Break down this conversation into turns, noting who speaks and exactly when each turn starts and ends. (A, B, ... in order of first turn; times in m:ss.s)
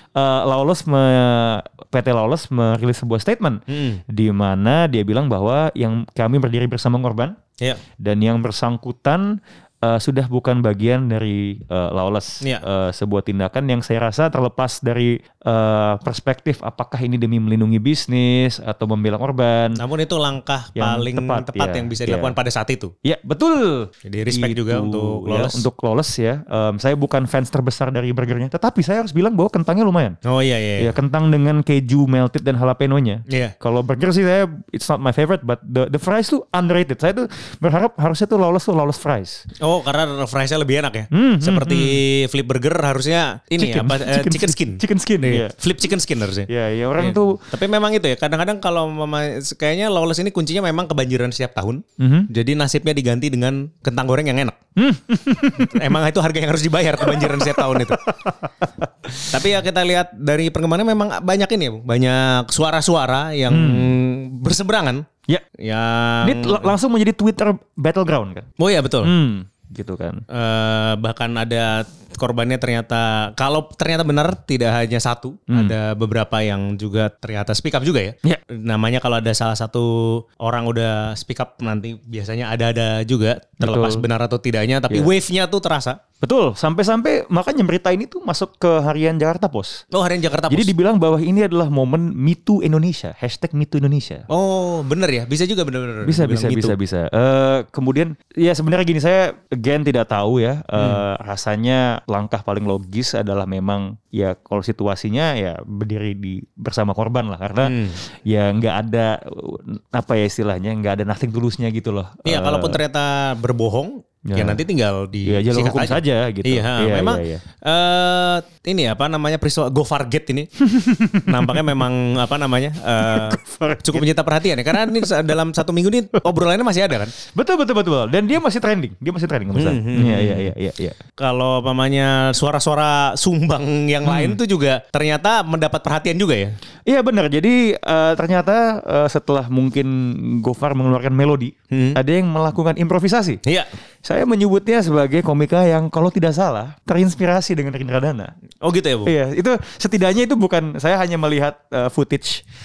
0:00.2-0:07.4 A
0:03.7-0:04.0 B
0:08.0-0:19.8 A
0:19.8-0:22.9 B
0:20.8-0:22.4 A
0:23.0-0:30.2 A
0:24.0-0:25.6 B
0:30.2-0:30.9 B
0:30.8-0:39.4 A
0:33.3-0:33.5 B
0:39.6-0:54.6 B
0:41.1-0:42.0 A
0:43.6-0:45.5 A
0:46.5-0:47.4 A
0:52.0-0:52.3 A
0:54.8-0:55.8 A
0:55.6-0:58.0 B
0:57.0-0:59.3 A
0:59.3-1:05.0 B
1:03.5-1:03.9 A
1:05.6-1:06.8 B
1:06.2-1:08.5 A
1:08.6-1:09.1 B
1:09.0-1:10.2 A
1:10.3-1:26.0 B
1:15.5-1:15.8 A
1:23.6-1:24.1 A
1:26.2-1:29.8 A
1:29.9-1:30.7 B
1:30.5-1:34.3 A
1:34.3-1:36.8 B
1:36.0-1:52.8 A
1:40.8-1:41.0 B
1:47.6-1:48.0 B
1:52.2-2:00.5 B
1:54.2-1:54.6 A
1:55.2-1:57.4 A
2:00.7-2:01.7 A
2:01.2-2:07.1 B
2:03.0-2:04.1 A
2:04.7-2:05.0 A
2:07.3-2:11.0 A
2:09.5-2:10.5 B
2:11.2-2:16.6 B
2:14.1-2:14.4 A
2:16.8-2:23.4 A
2:21.7-2:22.0 B
2:23.4-2:23.7 B
2:24.0-2:28.3 A
2:28.6-2:29.1 B
2:29.0-2:32.4 A